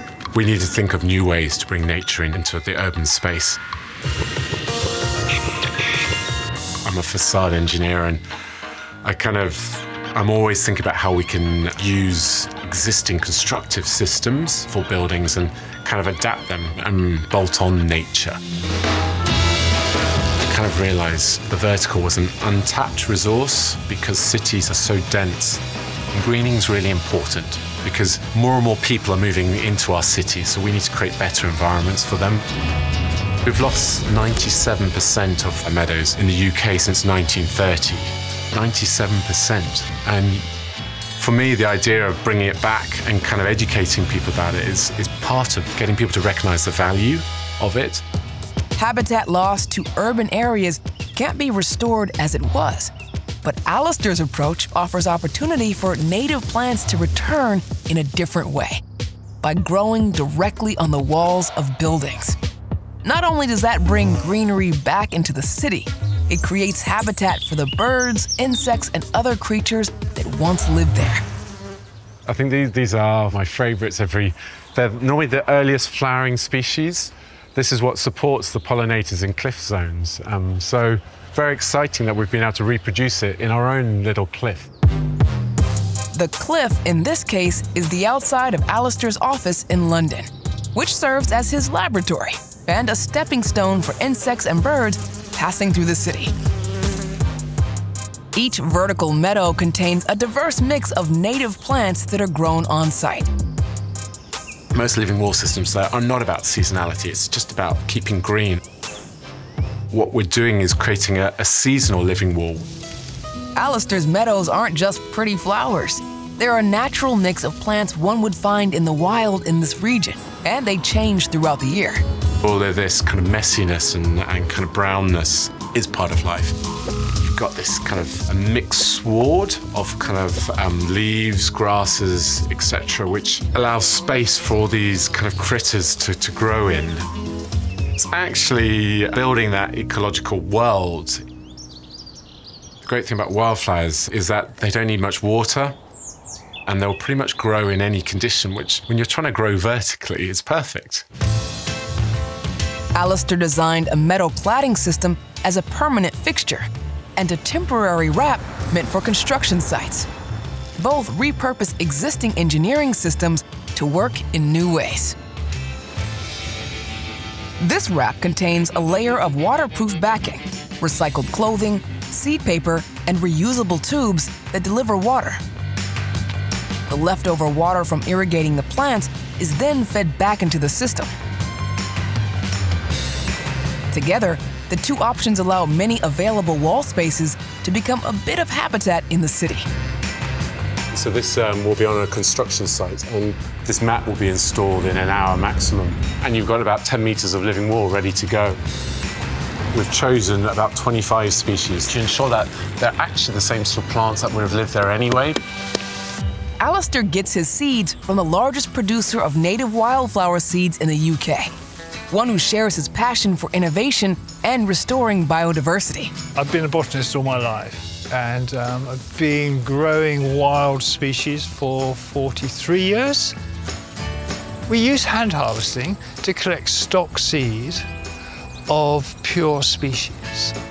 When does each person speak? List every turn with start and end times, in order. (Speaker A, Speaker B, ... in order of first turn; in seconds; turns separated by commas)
Speaker A: 0.3-3.6, Speaker A: 6.8-8.2, Speaker A: 9.0-18.4, Speaker A: 20.5-32.4, Speaker A: 33.4-40.5, Speaker A: 41.2-48.0, Speaker B: 48.8-58.8, Speaker B: 59.4-62.4, Speaker B: 63.0-71.2, Speaker A: 72.2-84.7, Speaker B: 86.1-96.3, Speaker B: 98.3-103.3, Speaker A: 104.7-108.6, Speaker A: 109.9-112.7, Speaker B: 113.5-122.0, Speaker A: 122.4-126.5, Speaker A: 127.2-137.1, Speaker A: 137.9-141.2, Speaker A: 142.8-145.8, Speaker A: 146.7-151.0, Speaker B: 152.9-160.1, Speaker B: 160.8-165.2, Speaker B: 167.6-175.4, Speaker B: 176.9-181.1, Speaker B: 183.9-189.7, Speaker A: 190.9-198.6, Speaker A: 199.7-205.4, Speaker B: 206.6-211.5, Speaker B: 212.1-216.1, Speaker C: 216.3-223.3, Speaker C: 224.7-227.8, Speaker C: 228.7-230.5